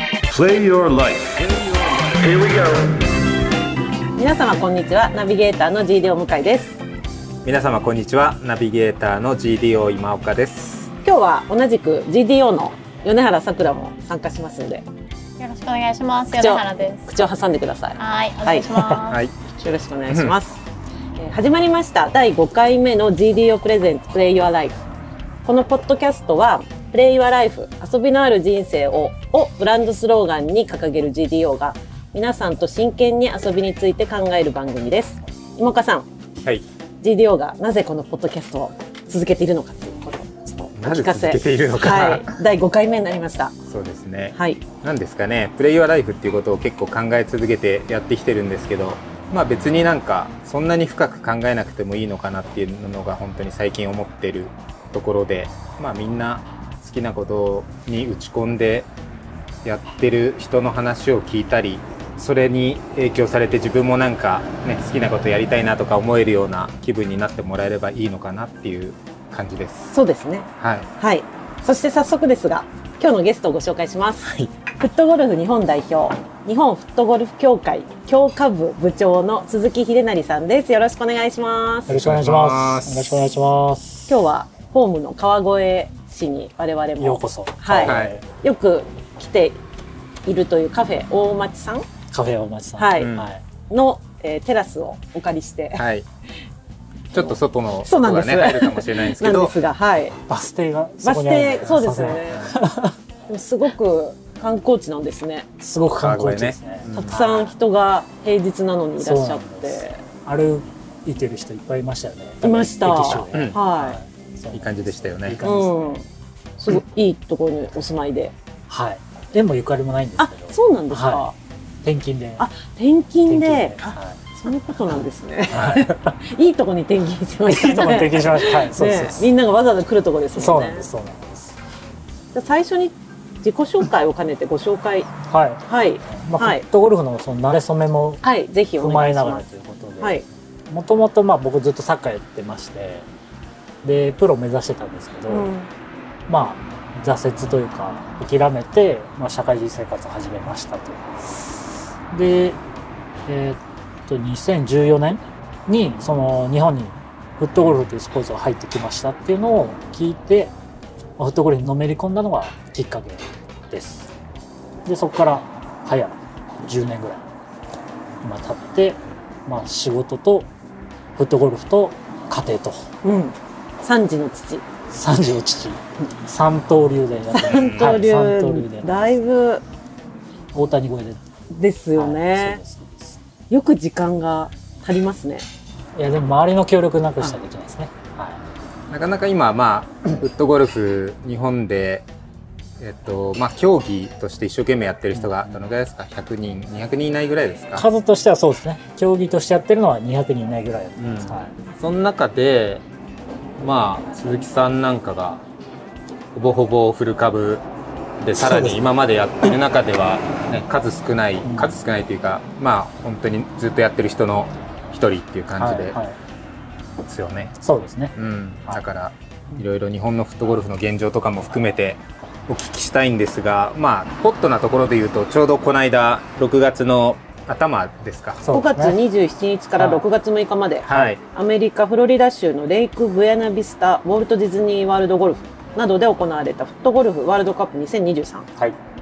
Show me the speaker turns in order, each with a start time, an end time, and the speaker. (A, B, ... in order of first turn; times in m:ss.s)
0:00.3-0:03.0 A
0:04.2-0:06.8 B
0:07.4-0:10.9 C
0:11.0-0:14.8 B
0:15.4-0:17.2 D
0:16.3-0:18.7 B
0:18.0-0:19.2 D
0:18.8-0:19.0 E
0:19.5-0:20.6 B
0:21.2-0:24.8 B
0:25.4-0:36.1 B
0:37.0-0:43.5 B
0:40.7-0:42.3 C
0:43.6-0:58.9 C
0:44.3-0:44.6 B
0:59.6-1:09.9 C
1:09.9-1:21.9 B
1:10.6-1:10.9 C
1:21.9-1:23.2 C
1:21.9-1:24.1 E
1:24.1-1:29.6 B
1:27.0-1:28.2 E
1:27.8-1:28.2 C
1:30.2-1:31.8 B
1:32.1-1:33.4 E
1:32.8-1:33.1 B
1:33.0-1:33.3 C
1:33.7-1:35.8 B
1:35.8-1:36.0 C
1:37.1-1:39.5 C
1:37.8-1:40.2 B
1:40.3-1:43.0 E
1:41.0-1:42.5 B
1:43.3-1:45.5 B
1:45.6-1:47.5 E
1:46.0-1:47.2 C
1:46.9-1:50.0 B
1:49.0-1:56.0 E
1:52.4-1:54.0 B
1:54.5-1:55.4 C
1:55.4-1:56.1 B
1:56.6-1:58.3 B
1:58.7-2:01.3 E
2:00.2-2:01.4 B
2:01.8-2:02.5 E
2:02.4-2:10.9 B
2:03.2-2:04.2 E
2:05.5-2:05.8 C
2:05.5-2:06.1 E
2:07.4-2:09.3 E
2:10.3-2:11.6 E
2:12.3-2:15.1 B
2:15.3-2:18.2 E
2:15.6-2:16.6 B
2:18.2-2:19.4 B
2:18.8-2:23.1 E
2:23.8-2:25.5 E
2:25.3-2:25.7 B
2:26.3-2:31.5 E
2:32.1-2:32.6 E
2:33.2-2:40.5 E
2:41.2-2:44.1 E
2:44.8-2:47.2 E
2:48.2-2:50.5 E
2:51.2-2:52.9 E
2:53.0-2:54.6 B
2:54.9-2:59.1 E
2:57.3-2:59.6 B
2:57.5-2:58.0 C
3:00.5-3:01.2 E
3:01.5-3:02.6 B
3:01.9-3:03.2 E
3:03.5-3:05.4 B
3:05.9-3:08.4 E
3:08.9-3:12.0 C
3:12.8-3:17.8 C
3:15.1-3:15.6 E
3:17.7-3:21.5 E
3:21.0-3:22.8 C
3:23.6-3:25.4 C
3:26.3-3:27.6 C
3:28.2-3:36.0 C
3:28.4-3:28.8 E
3:31.4-3:31.8 E
3:35.5-3:36.2 E
3:37.0-3:37.5 C
3:37.6-3:38.2 E
3:38.2-3:48.4 C
3:48.4-3:49.0 E
3:48.5-3:58.5 B
3:49.8-3:50.0 E
3:50.9-3:51.2 C